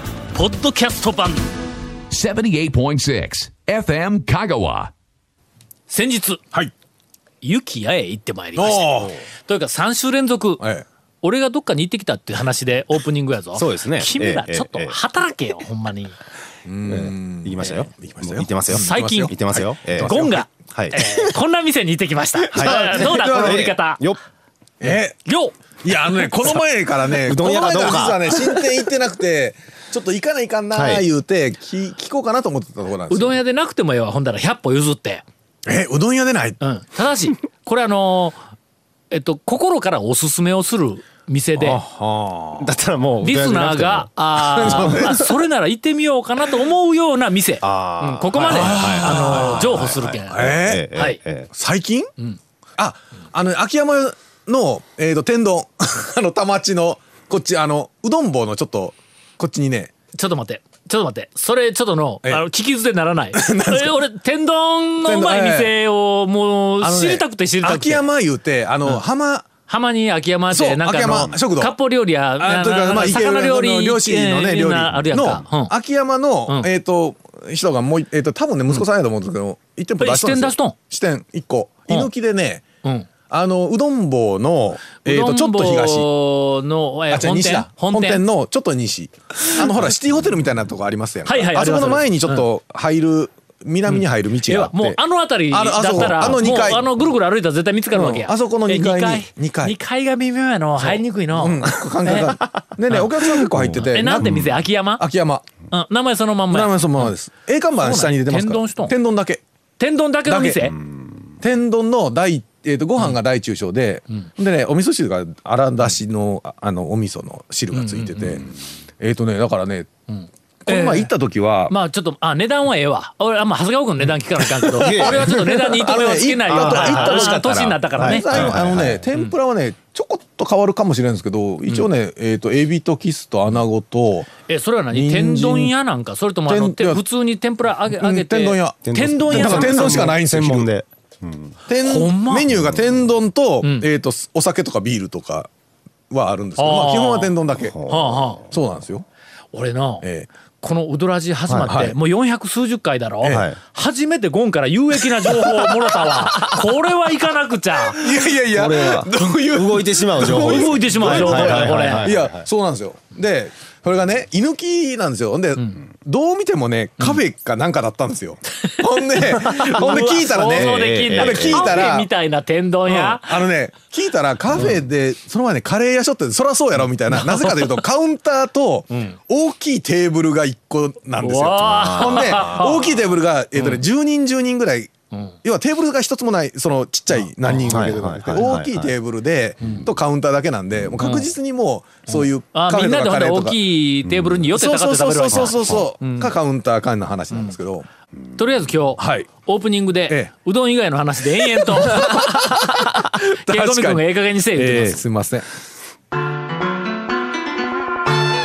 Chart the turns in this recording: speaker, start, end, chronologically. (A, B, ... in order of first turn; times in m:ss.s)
0:00.3-0:01.5 A
0:02.1-0:04.9 B
0:05.9-0:06.4 A
0:07.4-0:10.7 A
0:08.6-0:09.2 C
0:10.6-0:10.8 C
0:11.2-0:16.2 A
0:13.6-0:15.0 D
0:16.7-0:21.2 C
0:16.9-0:20.2 D
0:18.7-0:24.0 A
0:20.7-0:21.0 D
0:22.4-0:24.2 D
0:22.5-0:23.7 C
0:24.8-0:25.2 C
0:25.2-0:25.6 A
0:25.8-0:33.4 C
0:27.2-0:28.8 D
0:30.7-0:31.1 D
0:33.1-0:35.2 A
0:35.7-0:36.6 C
0:36.6-0:38.4 A
0:39.1-0:41.8 A
0:41.6-0:42.7 C
0:42.6-0:45.2 D
0:43.2-0:51.2 A
0:44.4-0:45.3 C
0:47.6-0:51.5 D
0:48.4-0:50.9 C
0:51.5-0:52.1 C
0:52.8-0:59.9 C
1:00.1-1:08.1 A
1:03.3-1:04.0 C
1:05.0-1:05.7 C
1:06.8-1:09.5 C
1:09.7-1:15.7 A
1:10.5-1:11.8 C
1:12.4-1:22.6 C
1:20.0-1:20.8 A
1:22.8-1:23.1 A
1:23.3-1:26.1 C
1:25.0-1:28.2 A
1:27.1-1:35.0 C
1:31.2-1:32.5 A
1:33.9-1:42.4 A
1:35.5-1:36.8 C
1:36.1-1:36.4 D
1:37.9-1:39.8 C
1:40.8-1:44.5 C
1:42.9-1:45.0 A
1:43.6-1:44.5 D
1:45.0-1:45.5 C
1:45.7-1:47.1 A
1:46.5-1:49.4 C
1:47.8-1:49.0 A
1:49.8-1:50.8 A
1:50.2-1:50.7 C
1:50.8-1:51.2 D
1:51.4-1:59.9 C
1:57.7-1:58.5 A
2:00.1-2:01.1 A
2:00.6-2:01.7 C
2:01.7-2:09.4 A
2:04.7-2:14.3 C
2:04.8-2:05.4 D
2:06.5-2:07.4 D
2:08.0-2:09.1 D
2:14.5-2:20.2 A
2:14.9-2:15.7 C
2:16.5-2:17.0 C
2:18.0-2:20.7 C
2:18.8-2:21.6 D
2:21.7-2:25.5 C
2:21.8-2:22.5 A
2:23.6-2:23.9 A
2:26.1-2:27.8 C
2:26.6-2:27.3 A
2:27.6-2:28.4 D
2:27.9-2:28.4 A
2:28.5-2:29.0 C
2:29.5-2:30.1 A
2:30.0-2:30.3 C
2:30.6-2:38.0 A
2:31.5-2:31.7 D
2:31.7-2:32.0 C
2:33.3-2:33.6 D
2:35.1-2:36.6 C
2:37.9-2:52.1 C
2:38.5-2:42.5 D
2:40.2-2:42.2 A
2:48.7-2:53.5 A
2:49.5-2:51.9 D
2:52.9-3:04.9 C
2:54.5-2:54.8 A
2:57.1-2:57.8 A
3:01.2-3:03.0 A
3:01.8-3:02.6 D
3:03.6-3:03.8 A
3:05.4-3:13.6 C
3:07.1-3:08.6 A
3:07.7-3:08.9 D
3:09.6-3:09.9 A
3:11.0-3:11.3 A
3:12.1-3:16.3 A
3:14.0-3:14.6 D
3:14.5-3:17.9 C
3:15.3-3:15.9 D
3:18.4-3:25.0 A
3:19.0-3:19.3 C
3:21.6-3:24.0 C
3:24.6-3:25.5 C